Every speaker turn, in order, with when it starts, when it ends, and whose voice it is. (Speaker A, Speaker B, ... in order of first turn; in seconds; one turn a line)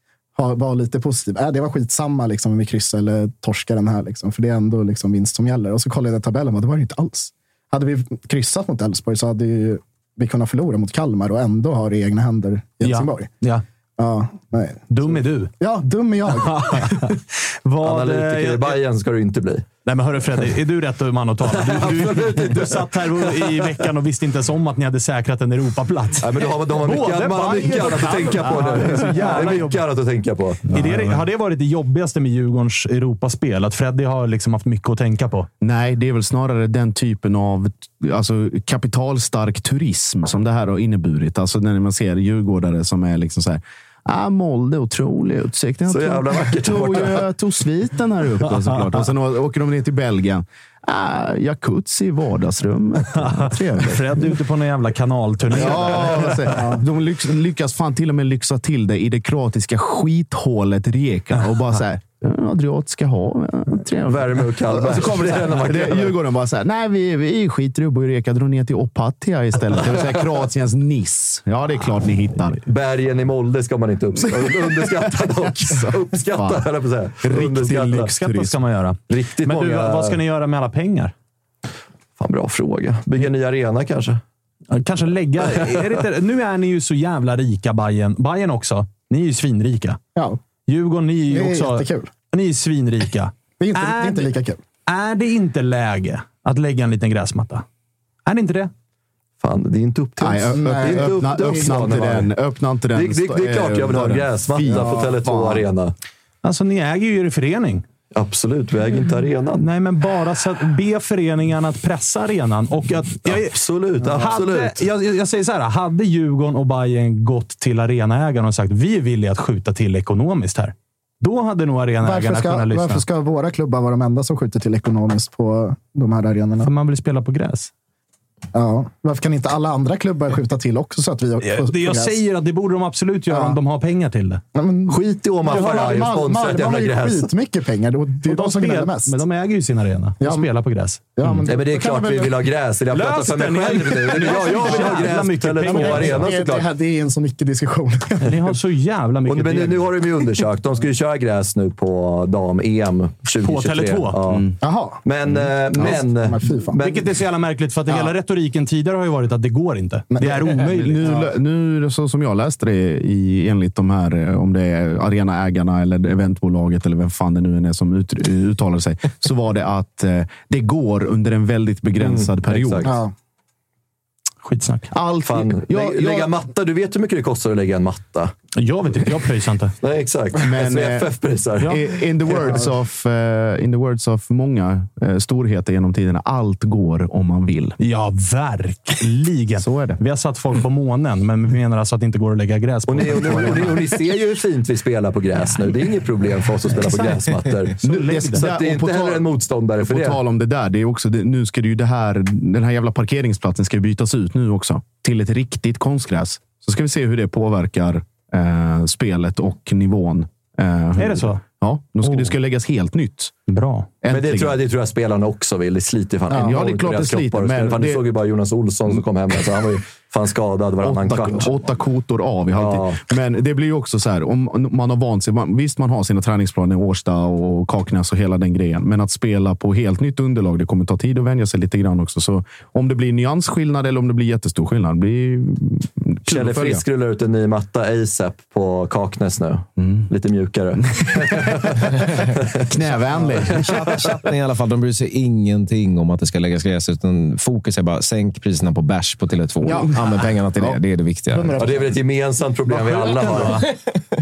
Speaker A: 0.3-13.3
Speaker B: 12.8-13.6
Speaker A: 14.0-17.0
Speaker B: 14.9-15.5
Speaker B: 16.4-18.8
Speaker C: 17.8-19.7
Speaker B: 19.8-29.8
Speaker C: 21.4-23.8
Speaker C: 26.2-30.7
Speaker B: 30.7-35.5
Speaker D: 30.7-31.2
Speaker D: 35.6-54.2
Speaker C: 45.9-47.2
Speaker B: 48.6-48.9
Speaker B: 53.3-56.7
Speaker D: 55.5-72.6
Speaker A: 56.5-56.8
Speaker C: 64.0-66.2
Speaker C: 72.6-78.1
Speaker D: 74.3-76.7
Speaker D: 77.2-78.6
Speaker B: 77.8-81.1
Speaker C: 79.1-80.2
Speaker C: 82.2-84.2
Speaker B: 84.7-90.0
Speaker C: 85.5-85.9
Speaker B: 90.7-94.3
Speaker A: 91.3-92.1
Speaker A: 93.6-94.6
Speaker B: 94.9-97.6
Speaker B: 98.3-98.7
Speaker C: 99.4-102.3
Speaker D: 100.2-105.6
Speaker A: 100.5-101.7
Speaker C: 102.9-105.9
Speaker A: 104.7-105.1
Speaker B: 106.4-107.8
Speaker C: 108.1-109.7
Speaker B: 109.6-123.0
Speaker C: 113.2-114.8
Speaker A: 122.0-126.7
Speaker B: 126.6-127.7
Speaker A: 128.5-132.2
Speaker B: 131.4-134.4
Speaker A: 133.3-133.6
Speaker A: 134.5-139.2
Speaker C: 134.9-137.3
Speaker B: 135.5-136.3
Speaker B: 138.2-141.0
Speaker A: 140.2-140.5
Speaker A: 141.2-142.3
Speaker C: 141.4-146.7
Speaker B: 142.9-146.2
Speaker D: 144.2-146.2
Speaker A: 146.0-148.3
Speaker B: 148.2-149.9
Speaker C: 149.2-154.4
Speaker B: 153.4-154.2
Speaker D: 154.3-154.6
Speaker A: 154.6-155.0
Speaker C: 155.0-157.2
Speaker A: 155.7-156.8
Speaker B: 156.8-161.2
Speaker A: 160.1-161.3
Speaker D: 160.5-172.9
Speaker C: 172.0-172.9
Speaker A: 172.8-173.1
Speaker B: 174.4-174.9
Speaker D: 174.9-176.4
Speaker C: 175.2-178.3
Speaker B: 178.6-179.7
Speaker C: 179.8-181.8
Speaker D: 180.4-187.8
Speaker B: 187.8-193.9
Speaker D: 189.6-190.0
Speaker C: 192.9-200.2
Speaker B: 196.8-198.4
Speaker D: 197.8-199.3
Speaker D: 199.8-213.3
Speaker B: 210.9-211.4
Speaker B: 212.0-212.3
Speaker B: 213.5-213.9
Speaker D: 214.0-214.6
Speaker C: 214.1-221.5
Speaker D: 216.3-218.1
Speaker D: 220.8-236.8
Speaker C: 222.5-223.0
Speaker C: 236.3-242.6
Speaker D: 239.8-240.1
Speaker D: 241.0-241.7
Speaker D: 242.7-243.7
Speaker E: 243.3-251.7
Speaker C: 243.6-244.1
Speaker A: 249.6-250.0
Speaker A: 251.3-252.0
Speaker C: 251.6-253.6
Speaker B: 252.7-253.7